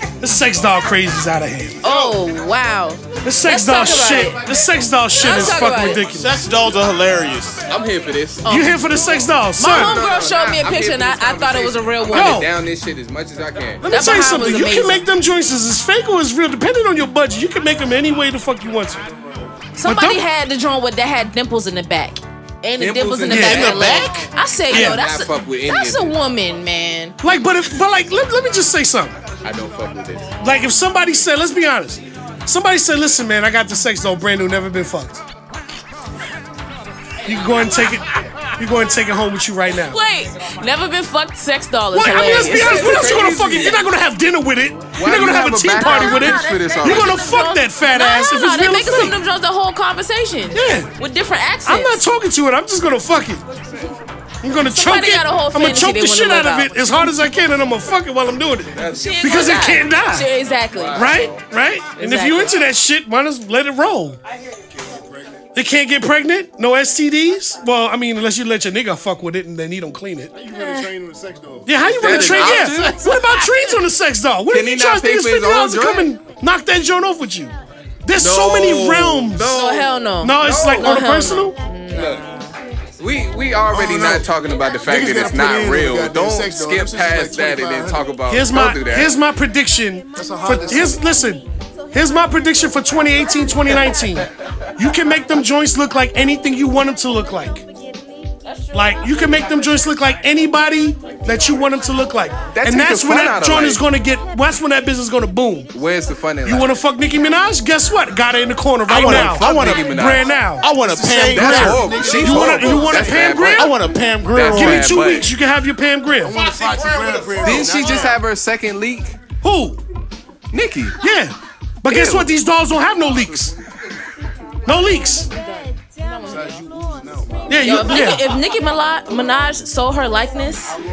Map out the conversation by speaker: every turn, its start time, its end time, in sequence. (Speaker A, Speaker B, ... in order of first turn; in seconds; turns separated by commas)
Speaker A: 0.2-1.8, Speaker B: 1.8-4.4, Speaker C: 1.9-2.1, Speaker A: 3.2-6.3, Speaker B: 5.2-6.0, Speaker C: 6.1-7.6, Speaker D: 7.7-8.5, Speaker B: 8.4-8.8, Speaker A: 8.5-10.0, Speaker B: 9.6-12.5, Speaker D: 9.6-14.1, Speaker A: 12.1-12.5, Speaker A: 13.8-19.0, Speaker B: 13.9-15.0, Speaker B: 19.8-27.2, Speaker A: 19.8-20.2, Speaker D: 22.8-24.0, Speaker A: 23.2-23.8, Speaker C: 23.4-24.3, Speaker D: 24.7-26.2, Speaker A: 24.7-25.0, Speaker A: 27.2-29.2, Speaker D: 29.4-30.3, Speaker A: 30.4-35.2, Speaker A: 37.2-40.0, Speaker B: 39.9-43.8, Speaker A: 41.9-49.2, Speaker D: 42.3-43.8, Speaker D: 44.9-47.3, Speaker B: 45.7-52.0, Speaker A: 50.5-50.9, Speaker A: 51.7-53.4, Speaker A: 54.4-60.3, Speaker B: 54.7-56.9, Speaker D: 58.8-59.7, Speaker B: 58.9-61.3, Speaker D: 60.7-61.4, Speaker A: 60.9-64.2, Speaker B: 62.0-62.5, Speaker E: 64.7-65.5, Speaker A: 65.5-70.3, Speaker E: 70.3-72.8, Speaker B: 70.5-70.9, Speaker A: 71.7-77.5, Speaker D: 71.8-73.8, Speaker D: 74.5-76.2, Speaker A: 78.0-79.5, Speaker D: 78.1-81.1, Speaker B: 79.5-82.5, Speaker A: 80.2-81.5, Speaker D: 81.9-82.2, Speaker D: 83.0-89.2, Speaker E: 83.7-88.1, Speaker A: 88.2-97.6, Speaker E: 90.2-91.0, Speaker A: 98.7-105.7, Speaker D: 102.5-103.9, Speaker D: 105.7-106.8, Speaker A: 106.4-110.8, Speaker C: 108.9-109.9, Speaker D: 108.9-110.5, Speaker C: 110.6-112.2, Speaker E: 110.7-113.3, Speaker D: 111.2-115.4, Speaker A: 111.4-113.9, Speaker C: 113.5-115.2, Speaker A: 114.4-116.4, Speaker E: 116.2-118.2, Speaker C: 116.3-117.9, Speaker D: 117.4-119.2, Speaker A: 119.4-119.8, Speaker D: 120.5-121.0, Speaker A: 121.0-123.5, Speaker D: 121.9-122.3, Speaker A: 124.7-125.3, Speaker B: 126.0-126.4, Speaker E: 126.2-127.7, Speaker A: 127.5-128.3, Speaker B: 127.6-130.7